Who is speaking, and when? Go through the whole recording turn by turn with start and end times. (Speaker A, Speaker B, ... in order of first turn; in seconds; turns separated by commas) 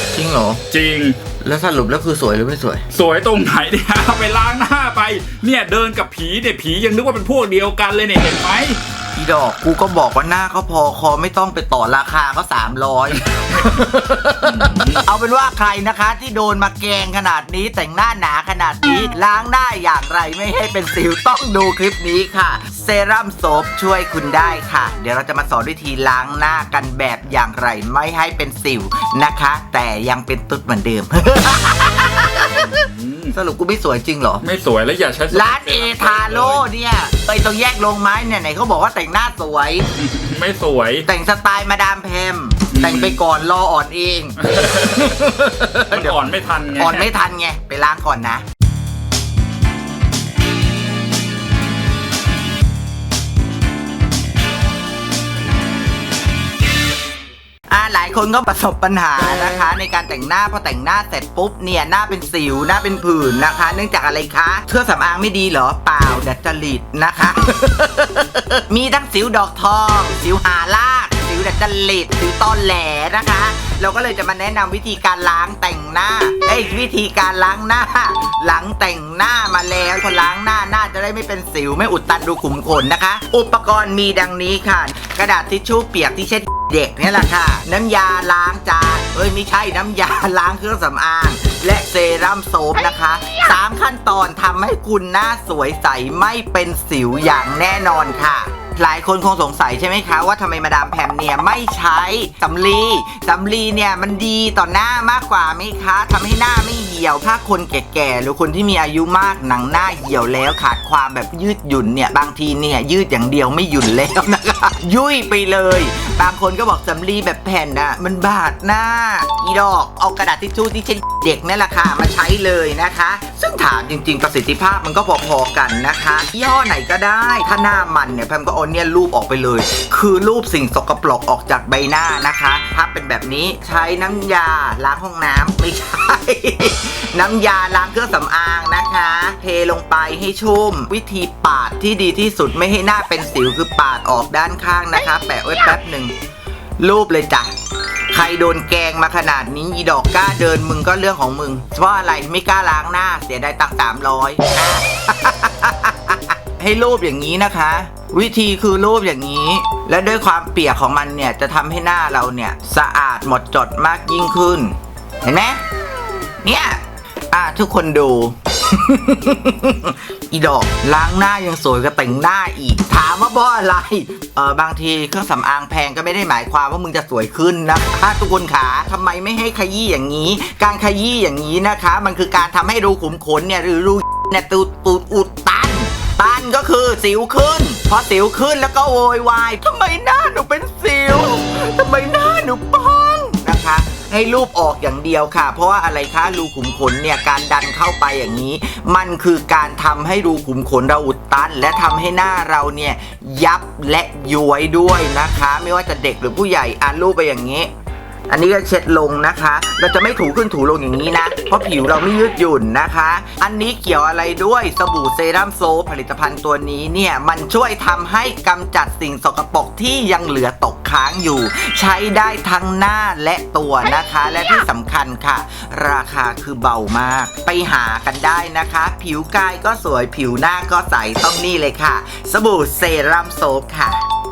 Speaker A: 0.1-0.6, Speaker B: 0.7-1.2, Speaker A: 1.4-2.8, Speaker B: 2.9-8.8, Speaker A: 9.2-34.4, Speaker B: 14.4-15.0, Speaker B: 32.6-33.3, Speaker B: 34.4-36.6, Speaker A: 35.3-39.9, Speaker B: 40.0-41.0, Speaker A: 41.0-46.2, Speaker B: 42.7-43.2, Speaker B: 44.4-47.1, Speaker A: 46.8-48.4, Speaker A: 57.7-146.1, Speaker A: 146.8-147.5, Speaker A: 148.1-165.6, Speaker A: 166.4-207.7, Speaker A: 208.3-234.0